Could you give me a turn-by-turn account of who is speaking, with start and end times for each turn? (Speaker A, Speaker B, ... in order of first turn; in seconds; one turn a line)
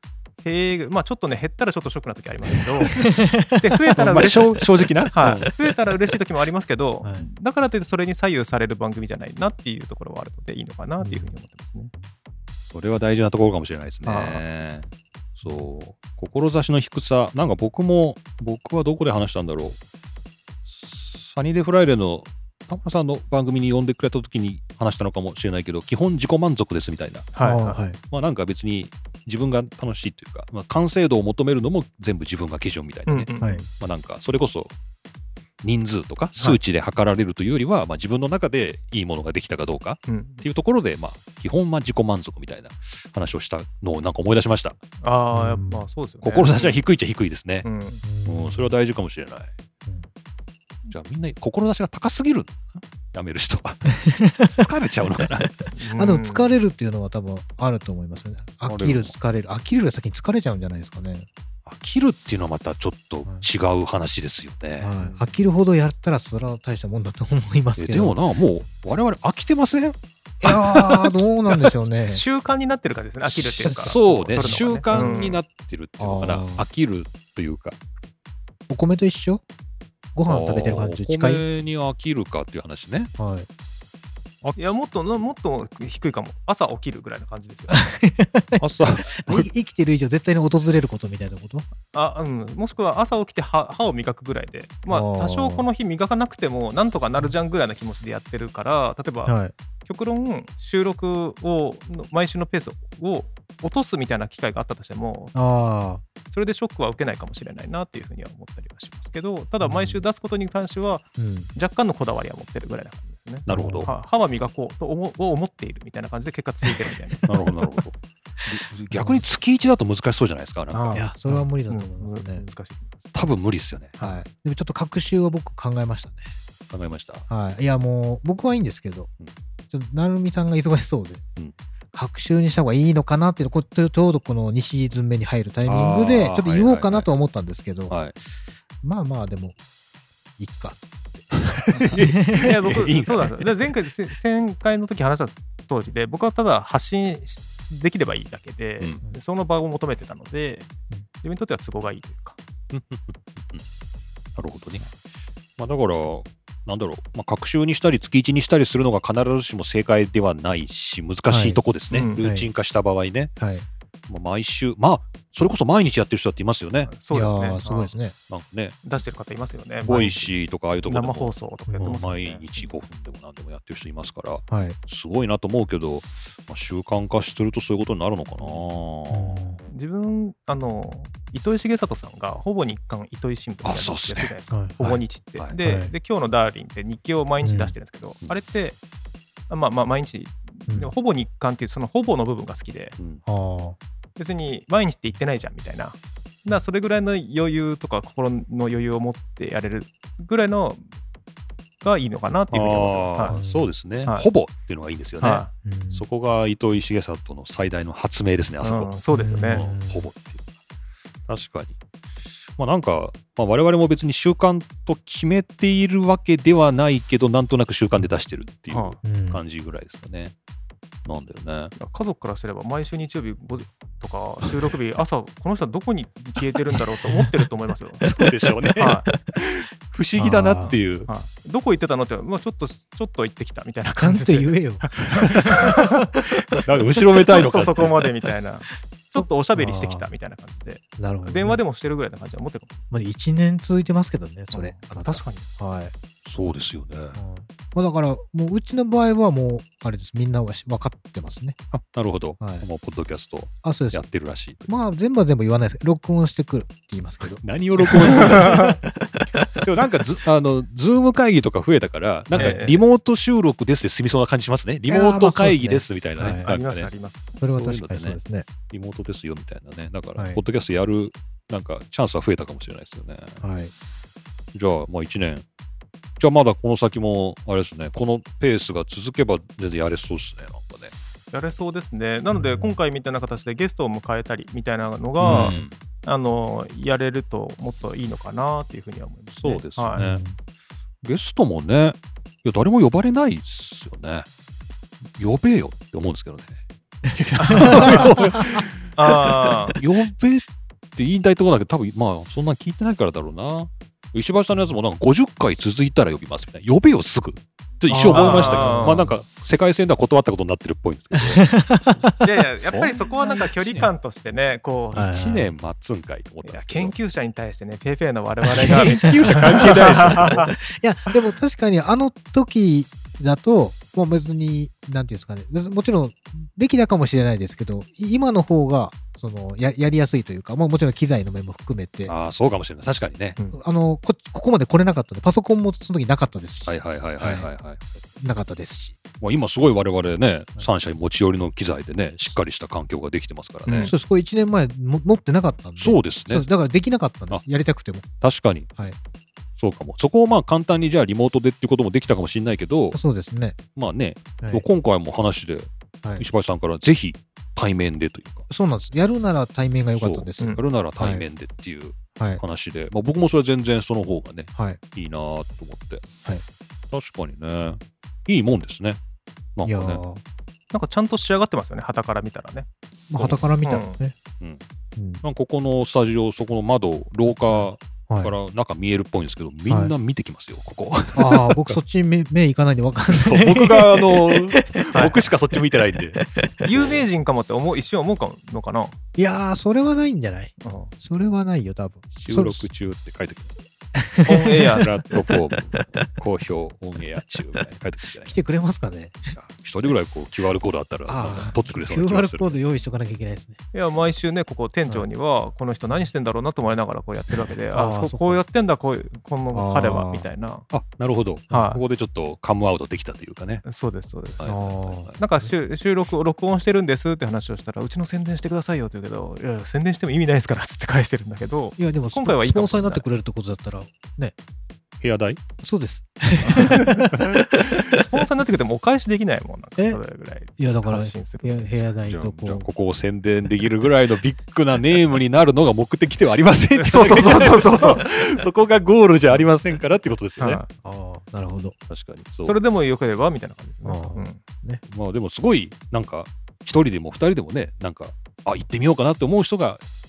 Speaker A: 0.4-4.6
Speaker B: 3.1-3.5
Speaker C: 3.9-5.5
Speaker A: 5.1-11.9
Speaker B: 7.0-7.3
Speaker C: 12.7-19.8
Speaker A: 14.1-14.4
Speaker C: 20.7-27.3
Speaker A: 27.4-27.8
Speaker B: 27.4-28.0
Speaker C: 28.0-34.7
Speaker A: 33.1-33.7
Speaker B: 33.4-33.7
Speaker C: 35.6-44.8
Speaker A: 40.1-40.4
Speaker A: 45.0-46.9
Speaker B: 45.3-45.9
Speaker C: 46.2-47.7
Speaker A: 47.6-48.0
Speaker B: 48.0-48.8
Speaker C: 48.3-49.5
Speaker C: 50.9-55.6
Speaker B: 54.0-54.7
Speaker A: 55.7-56.5
Speaker B: 56.0-61.3
Speaker C: 58.6-59.1
Speaker C: 61.7-64.9
Speaker B: 64.8-68.2
Speaker C: 67.8-71.2
Speaker B: 70.4-72.2
Speaker A: 72.1-75.4
Speaker C: 73.4-77.8
Speaker B: 73.5-74.0
Speaker B: 74.9-75.2
Speaker B: 76.0-76.6
Speaker B: 78.7-79.4
Speaker B: 80.2-81.5
Speaker C: 80.3-83.1
Speaker B: 83.2-83.5
Speaker C: 84.4-84.7
Speaker A: 84.6-87.9
Speaker B: 87.7-91.7
Speaker C: 88.6-89.5
Speaker A: 91.9-105.3
Speaker B: 94.9-95.7
Speaker B: 99.3-99.5
Speaker B: 105.3-106.0
Speaker A: 106.3-117.3
Speaker B: 109.6-110.0
Speaker B: 111.2-111.5
Speaker B: 113.5-113.9
Speaker C: 113.5-113.9
Speaker C: 117.3-121.0
Speaker B: 119.0-119.2
Speaker A: 120.7-123.1
Speaker B: 120.9-122.4
Speaker C: 123.1-124.0
Speaker B: 124.0-126.3
Speaker C: 126.7-127.3
Speaker B: 127.3-129.1
Speaker B: 129.7-131.2
Speaker B: 131.9-138.0
Speaker C: 135.7-137.1
Speaker C: 137.9-138.2
Speaker B: 138.8-139.6
Speaker B: 140.4-142.5
Speaker C: 141.3-143.5
Speaker A: 142.3-150.7
Speaker A: 151.2-152.4
Speaker C: 152.7-153.6
Speaker C: 154.4-154.8
Speaker C: 155.6-163.3
Speaker B: 161.3-161.6
Speaker A: 161.9-162.2
Speaker B: 162.2-162.5
Speaker B: 163.4-163.7
Speaker C: 164.1-166.9
Speaker A: 166.9-167.9
Speaker B: 167.1-168.2
Speaker C: 168.3-168.8
Speaker A: 168.8-170.3
Speaker B: 169.8-170.2
Speaker C: 169.9-179.5
Speaker A: 170.9-172.5
Speaker B: 171.7-172.1
Speaker B: 174.5-174.8
Speaker A: 178.4-178.8
Speaker B: 179.1-179.6
Speaker A: 179.7-188.8
Speaker C: 183.6-184.3
Speaker B: 184.5-185.0
Speaker B: 185.6-185.9
Speaker B: 187.4-187.8
Speaker A: 189.5-193.0
Speaker B: 193.2-193.8
Speaker A: 194.2-200.8
Speaker A: 201.8-203.4
Speaker C: 202.5-210.4
Speaker B: 203.3-203.7
Speaker A: 205.2-205.5
Speaker B: 205.6-206.1
Speaker A: 208.6-209.7
Speaker B: 209.1-210.1
Speaker C: 211.3-211.8
Speaker C: 212.6-220.3
Speaker A: 218.7-219.0
Speaker B: 219.0-219.4
Speaker C: 221.1-221.7
Speaker A: 221.8-228.0
Speaker C: 228.0-231.1
Speaker A: 228.8-229.1
Speaker B: 230.2-230.8
Speaker A: 231.1-236.1
Speaker B: 234.0-235.8
Speaker C: 236.6-238.0
Speaker A: 237.2-242.8
Speaker B: 239.2-240.1
Speaker B: 241.0-241.6
Speaker B: 242.9-245.9
Speaker A: 244.5-245.5
Speaker C: 246.2-247.2
Speaker B: 247.1-251.6
Speaker C: 251.7-254.7
Speaker B: 252.4-252.7
Speaker B: 253.6-254.0
Speaker B: 254.7-258.8
Speaker C: 257.2-258.8
Speaker A: 258.3-258.7
Speaker C: 259.6-266.9
Speaker B: 262.3-262.6
Speaker A: 262.3-262.8
Speaker B: 264.9-266.5
Speaker A: 266.4-267.3
Speaker B: 267.4-268.5
Speaker C: 267.4-273.4
Speaker B: 270.2-270.4
Speaker B: 273.4-273.7
Speaker C: 274.5-275.4
Speaker C: 276.2-280.9
Speaker A: 281.3-290.0
Speaker B: 282.3-282.8
Speaker B: 285.2-285.6
Speaker C: 285.2-285.7
Speaker C: 289.4-290.2
Speaker B: 290.0-290.4
Speaker C: 291.0-294.3
Speaker C: 295.1-300.4
Speaker A: 297.4-298.1
Speaker B: 297.6-298.6
Speaker A: 299.0-299.8
Speaker C: 301.0-311.5
Speaker B: 307.9-309.2
Speaker A: 308.1-309.1
Speaker B: 311.2-312.2
Speaker A: 312.2-315.3
Speaker C: 312.6-313.0
Speaker B: 313.2-313.9
Speaker B: 314.9-315.5
Speaker C: 315.0-316.9
Speaker A: 316.4-320.5
Speaker B: 318.5-332.1
Speaker C: 318.6-320.5
Speaker C: 332.1-333.4
Speaker B: 333.5-337.5
Speaker C: 336.7-337.9
Speaker B: 338.2-339.0
Speaker C: 339.2-343.9
Speaker A: 343.7-343.9
Speaker B: 343.8-348.1
Speaker C: 345.8-346.5
Speaker C: 348.2-348.7
Speaker C: 349.6-353.0
Speaker B: 352.9-353.6
Speaker C: 353.8-358.5
Speaker B: 354.4-354.7
Speaker B: 358.5-361.2
Speaker C: 360.0-366.1
Speaker B: 362.2-362.4
Speaker B: 364.6-364.8
Speaker C: 366.9-369.0
Speaker C: 369.6-370.0
Speaker B: 369.6-370.2
Speaker A: 370.7-372.7
Speaker B: 373.1-374.2
Speaker C: 373.2-373.4
Speaker A: 373.6-374.0
Speaker B: 375.0-375.2
Speaker C: 375.2-381.8
Speaker B: 377.5-378.3
Speaker B: 379.7-379.9
Speaker B: 381.1-384.8
Speaker C: 383.1-387.0
Speaker A: 384.9-385.2
Speaker A: 386.6-389.0
Speaker B: 389.2-392.7
Speaker A: 390.6-390.9
Speaker C: 392.1-393.6
Speaker B: 394.0-394.7
Speaker A: 394.3-395.2
Speaker C: 394.8-398.4
Speaker B: 395.7-396.0
Speaker B: 398.2-399.4
Speaker C: 399.3-402.6
Speaker B: 401.1-403.6
Speaker A: 403.7-410.7
Speaker B: 407.7-408.4
Speaker B: 409.5-410.3
Speaker C: 410.7-413.6
Speaker A: 411.5-411.8
Speaker A: 413.6-423.0
Speaker C: 414.4-415.2
Speaker B: 414.5-415.5
Speaker B: 421.8-424.4
Speaker C: 425.0-425.4
Speaker B: 425.6-428.0
Speaker A: 426.4-427.2
Speaker A: 427.8-431.9
Speaker B: 430.6-432.7
Speaker C: 432.1-440.6
Speaker A: 436.8-438.4
Speaker A: 440.4-440.7
Speaker B: 440.8-441.8
Speaker C: 441.9-442.6
Speaker A: 442.4-444.4
Speaker B: 443.8-444.8
Speaker C: 444.9-449.8